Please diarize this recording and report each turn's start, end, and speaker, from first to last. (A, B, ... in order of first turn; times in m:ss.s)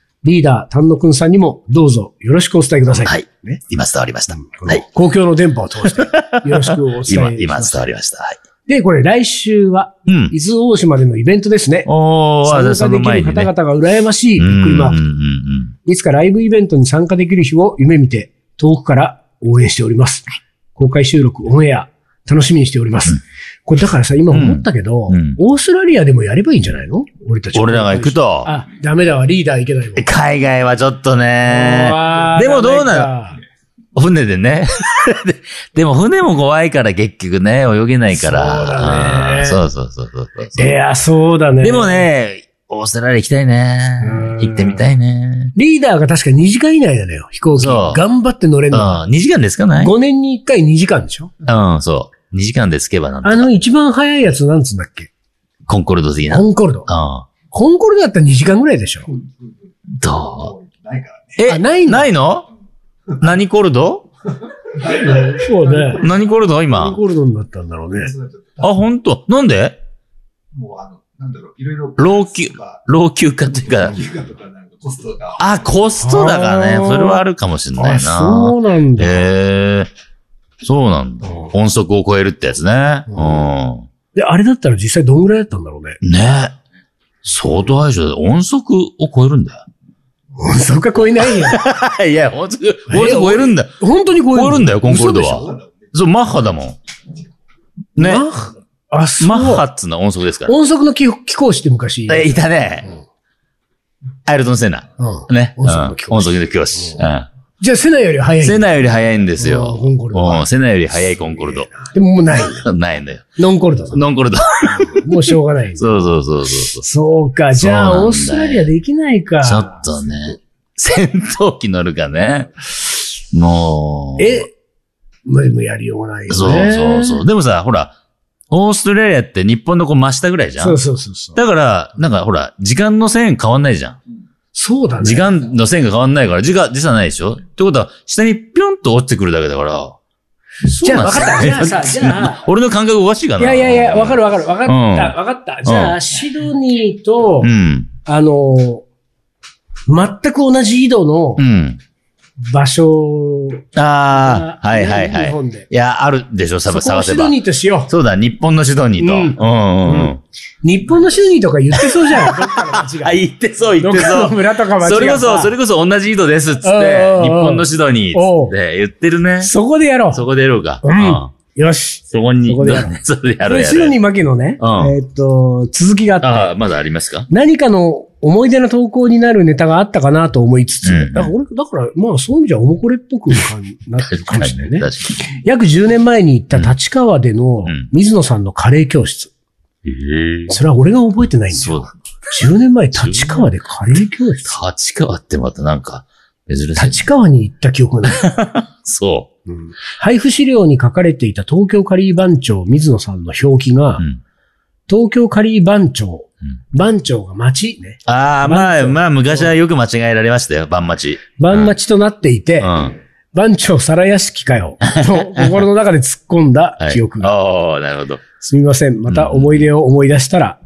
0:00.2-0:03.6 A
0:02.9-0:04.8 B
0:04.3-0:07.8 A
0:06.0-0:08.4 B
0:08.7-0:11.9 A
0:10.1-0:10.3 B
0:11.9-0:13.5 B
0:12.4-0:15.0 A
0:14.4-0:15.8 B
0:15.8-0:30.1 A
0:24.3-0:25.4 B
0:27.5-0:28.5 B
0:30.0-0:33.1 B
0:31.5-0:33.4 A
0:34.0-0:40.7 B
0:38.1-0:39.6 A
0:40.6-0:42.1 A
0:41.6-0:45.5 B
0:44.0-0:44.8 A
0:45.6-0:49.0 A
0:47.6-0:48.0 B
0:48.7-0:49.9 B
0:49.8-0:51.3 A
0:51.4-0:53.5 B
0:53.2-0:55.1 A
0:55.7-0:57.3 B
0:56.3-0:56.9 A
0:57.5-0:59.1 A
1:00.0-1:00.5 B
1:00.2-1:01.4 C
1:01.4-1:02.5 B
1:01.4-1:02.1 A
1:03.2-1:04.1 B
1:04.8-1:06.2 C
1:04.8-1:06.0 A
1:06.0-1:07.0 B
1:06.7-1:08.1 A
1:08.0-1:08.7 C
1:08.6-1:09.8 B
1:10.5-1:12.8 C
1:12.0-1:14.0 B
1:13.6-1:15.5 C
1:15.4-1:19.9 B
1:16.0-1:17.2 A
1:17.8-1:19.3 A
1:20.6-1:23.9 B
1:21.2-1:21.5 A
1:23.1-1:23.4 A
1:24.2-1:26.0 A
1:26.0-1:26.6 B
1:27.2-1:29.7 B
1:30.4-1:31.6 A
1:31.2-1:33.7 B
1:32.9-1:35.4 A
1:34.3-1:36.8 B
1:35.0-1:35.7 C
1:38.0-1:38.3 B
1:38.0-1:39.6 A
1:39.2-1:40.5 B
1:40.5-1:42.4 A
1:42.1-1:42.9 B
1:44.3-1:47.3 B
1:45.0-1:47.0 A
1:47.6-1:48.7 A
1:48.4-1:51.7 B
1:49.4-1:50.5 A
1:51.7-1:52.7 A
1:52.4-1:53.4 B
1:53.4-1:54.0 A
1:53.9-1:55.0 B
1:54.7-1:56.0 A
1:55.8-1:56.9 B
1:56.8-1:59.8 A
1:57.6-1:58.7 B
1:59.4-2:04.4 B
2:04.2-2:04.5 A
2:05.3-2:07.2 A
2:06.3-2:08.0 B
2:08.5-2:10.8 B
2:10.6-2:11.4 A
2:11.4-2:14.0 B
2:14.5-2:15.3 A
2:15.0-2:20.0 B
2:20.7-2:22.5 A
2:20.7-2:26.0 B
2:23.4-2:27.5 A
2:27.4-2:27.9 B
2:28.0-2:28.8 A
2:29.9-2:31.4 A
2:31.4-2:31.8 B
2:32.5-2:35.7 A
2:33.8-2:40.2 B
2:36.7-2:37.9 A
2:39.0-2:43.2 A
2:41.8-2:49.5 B
2:43.8-2:45.5 A
2:46.6-2:48.5 A
2:49.4-2:50.2 A
2:50.1-2:51.3 B
2:50.8-2:56.5 A
2:52.1-2:54.0 B
2:54.6-2:55.0 B
2:56.2-2:57.3 B
2:57.3-3:09.3 A
3:00.8-3:01.3 B
3:04.0-3:05.2 B
3:09.8-3:10.5 B
3:10.5-3:14.6 A
3:11.6-3:12.0 B
3:13.0-3:13.5 B
3:14.5-3:17.1 B
3:16.8-3:18.3 A
3:18.2-3:19.3 B
3:19.5-3:24.1 A
3:24.9-3:29.0 A
3:28.1-3:31.7 B
3:31.4-3:32.7 A
3:32.6-3:33.0 B
3:33.3-3:37.3 A
3:34.9-3:35.6 B
3:36.8-3:38.2 B
3:38.4-3:40.6 A
3:39.1-3:39.7 B